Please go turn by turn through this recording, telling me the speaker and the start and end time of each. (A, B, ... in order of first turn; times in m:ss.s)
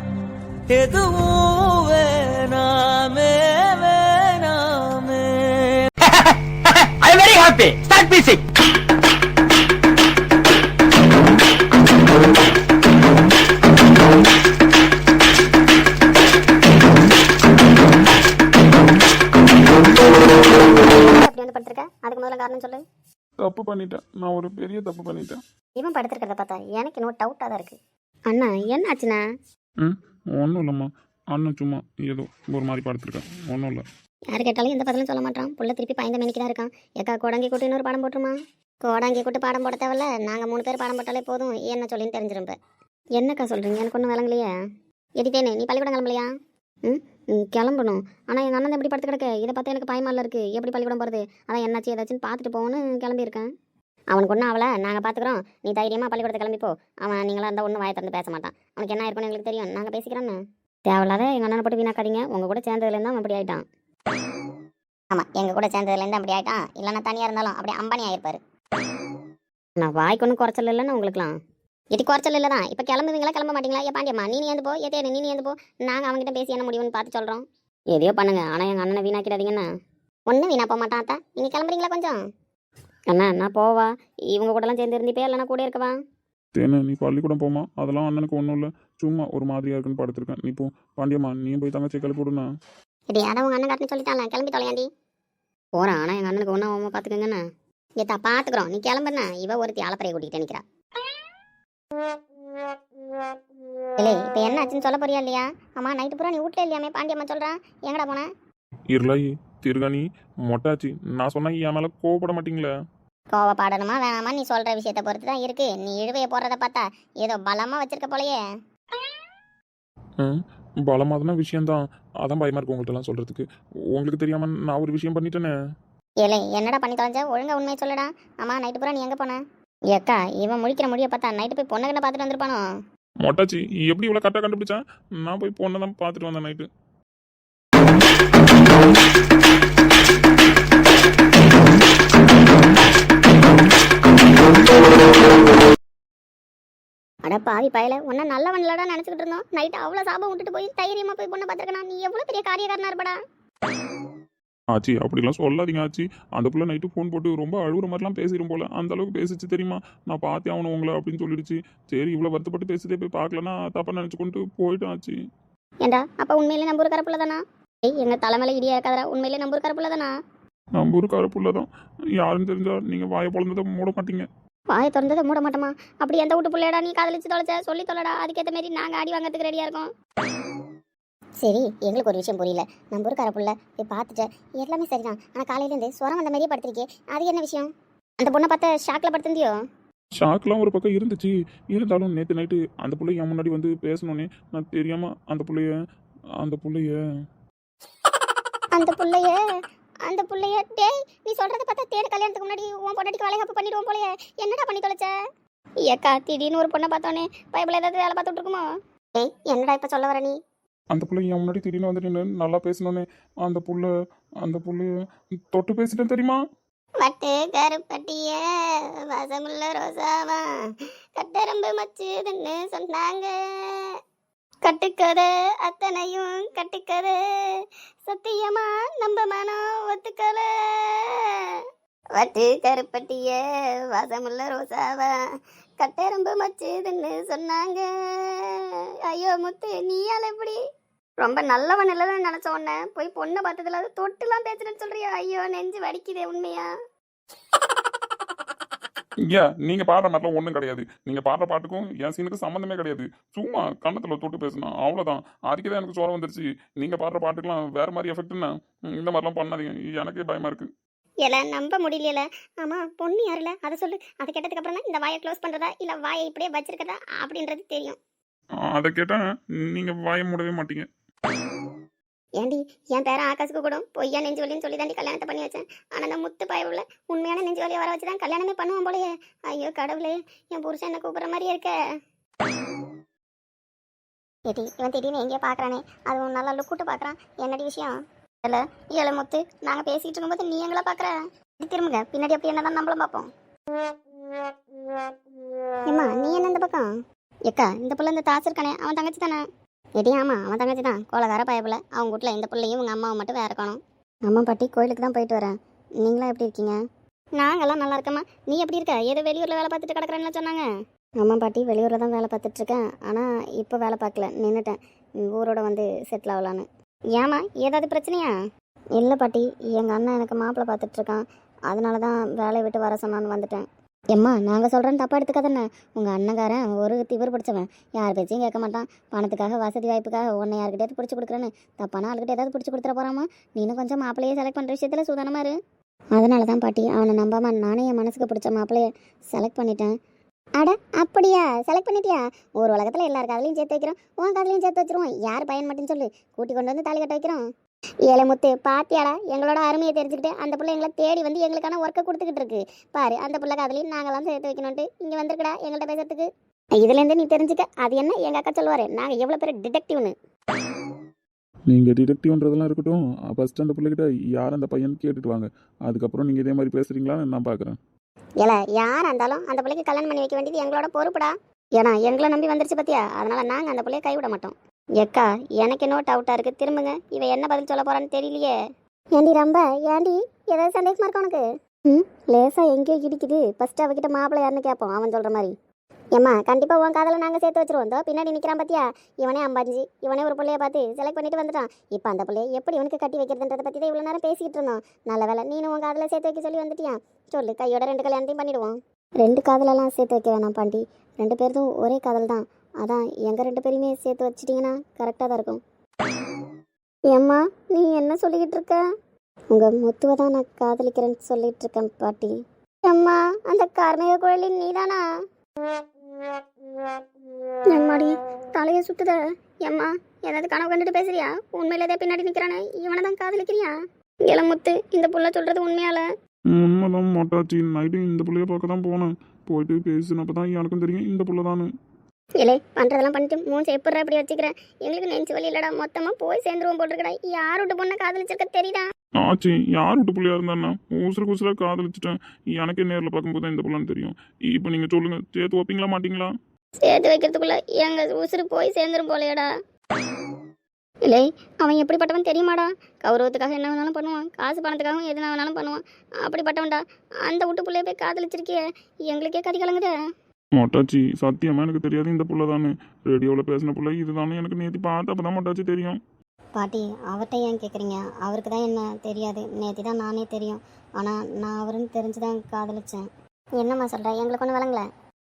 0:00.7-0:05.8 A
0:06.0-0:08.4 B
0:20.8-0:22.8 C
0:23.4-0:25.4 D
0:25.8-0:27.8 C
0:28.3-0:29.2 C
0:29.8-0:33.8 D
0:34.3-0:42.6 C
0:43.2-0:44.5 C
0:45.2-0:46.3 C
0:46.9-0:53.5 C
0:54.1-1:03.6 C
1:05.1-1:08.4 C
1:09.8-1:11.4 C
1:11.9-1:19.7 C
1:20.3-1:22.2 C
1:23.1-1:25.9 C
1:26.6-1:32.5 D
1:33.1-1:34.9 C
1:35.8-1:37.4 C
1:38.0-1:40.6 C
1:44.0-1:48.3 C
1:48.9-1:52.7 D
1:53.3-1:58.4 C
2:00.2-2:05.5 D
2:06.2-2:09.4 C
2:09.9-2:12.6 C
2:13.2-2:16.7 D
2:27.3-2:33.2 C
2:34.7-2:45.2 D
2:45.8-2:50.1 C
2:50.8-2:54.3 D
2:54.7-2:59.9 C
3:01.4-3:07.7 C
3:08.2-3:09.5 C
3:10.2-3:15.7 D
3:16.4-3:17.0 D
3:18.7-3:19.4 C
3:20.0-3:25.1 C
3:25.9-3:28.6 C
3:29.2-3:30.4 C
3:30.9-3:36.4 D
3:37.0-3:44.0 C
3:44.6-3:51.6 C
3:52.2-3:55.2 C
3:55.8-4:00.6 C
4:01.2-4:06.7 C
4:09.2-4:20.7 D
4:21.2-4:28.0 C
4:28.7-4:30.9 D
4:32.4-4:41.8 C
4:44.5-4:53.3 C
4:55.9-4:56.9 C
4:57.5-4:59.4 C
5:00.0-5:06.8 C
5:07.4-5:10.6 C
5:11.2-5:18.3 C
5:19.0-5:35.5 C
5:36.2-5:40.0 C
5:40.6-5:47.4 C
5:48.1-5:56.3 C
5:56.8-6:00.1 C
6:01.7-6:07.8 D
6:08.4-6:18.5 C
6:19.2-6:25.5 C
6:26.2-6:45.6 C
6:47.1-6:48.8 C
6:49.5-6:52.3 C
6:52.8-6:55.0 C
6:57.7-7:03.7 C
7:04.2-7:06.1 C
7:06.5-7:11.7 D
7:12.4-7:18.8 C
7:19.2-7:26.3 D
7:26.8-7:29.5 C
7:31.1-7:39.9 C
7:40.6-7:46.0 D
7:46.6-7:53.1 C
7:53.6-7:54.8 C